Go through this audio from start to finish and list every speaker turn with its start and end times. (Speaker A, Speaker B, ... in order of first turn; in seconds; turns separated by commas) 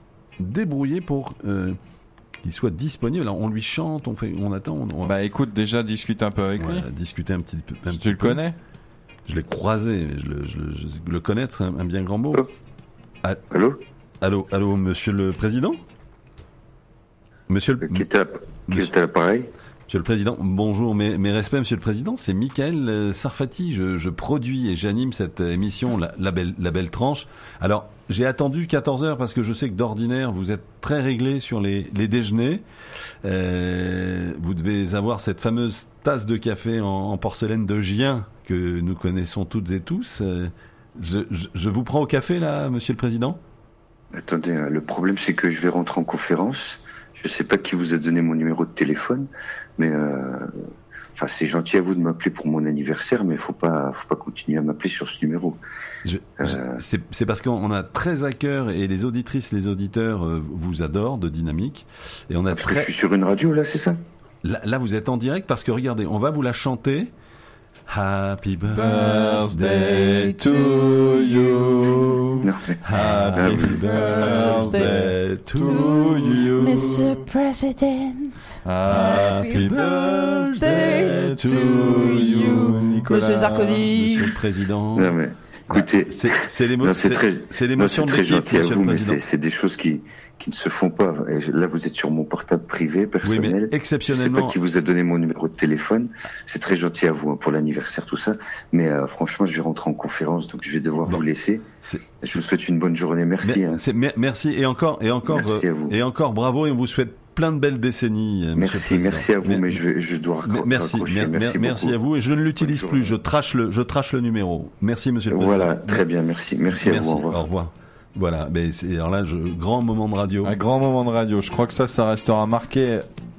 Speaker A: 0.4-1.8, Speaker A: 2.4-5.2, Speaker B: 5.0-6.8, Speaker A: 6.6-8.4, Speaker B: 7.9-8.6, Speaker A: 9.3-12.4, Speaker C: 13.5-13.8, Speaker A: 14.2-15.8, Speaker A: 17.5-18.0, Speaker C: 17.8-19.5, Speaker A: 19.9-32.6, Speaker A: 33.2-43.4, Speaker C: 44.1-50.6, Speaker C: 51.1-55.6, Speaker A: 56.0-62.9, Speaker C: 56.4-56.8, Speaker C: 62.5-64.0, Speaker A: 64.4-67.1, Speaker A: 67.9-70.1, Speaker B: 68.7-77.3, Speaker D: 68.8-72.1, Speaker C: 72.4-72.8, Speaker A: 72.8-76.1, Speaker C: 73.3-73.8, Speaker D: 73.8-74.9, Speaker D: 75.5-84.4, Speaker B: 78.6-83.9, Speaker A: 78.8-83.1, Speaker A: 83.7-85.1, Speaker C: 84.9-101.7, Speaker A: 85.7-89.2, Speaker A: 93.2-94.6, Speaker A: 101.8-102.4, Speaker C: 102.2-103.8, Speaker A: 103.4-109.8, Speaker C: 105.2-106.0, Speaker C: 108.5-112.0, Speaker A: 110.4-116.0, Speaker C: 112.6-113.2, Speaker C: 115.3-117.4, Speaker A: 116.7-120.6, Speaker B: 120.4-123.1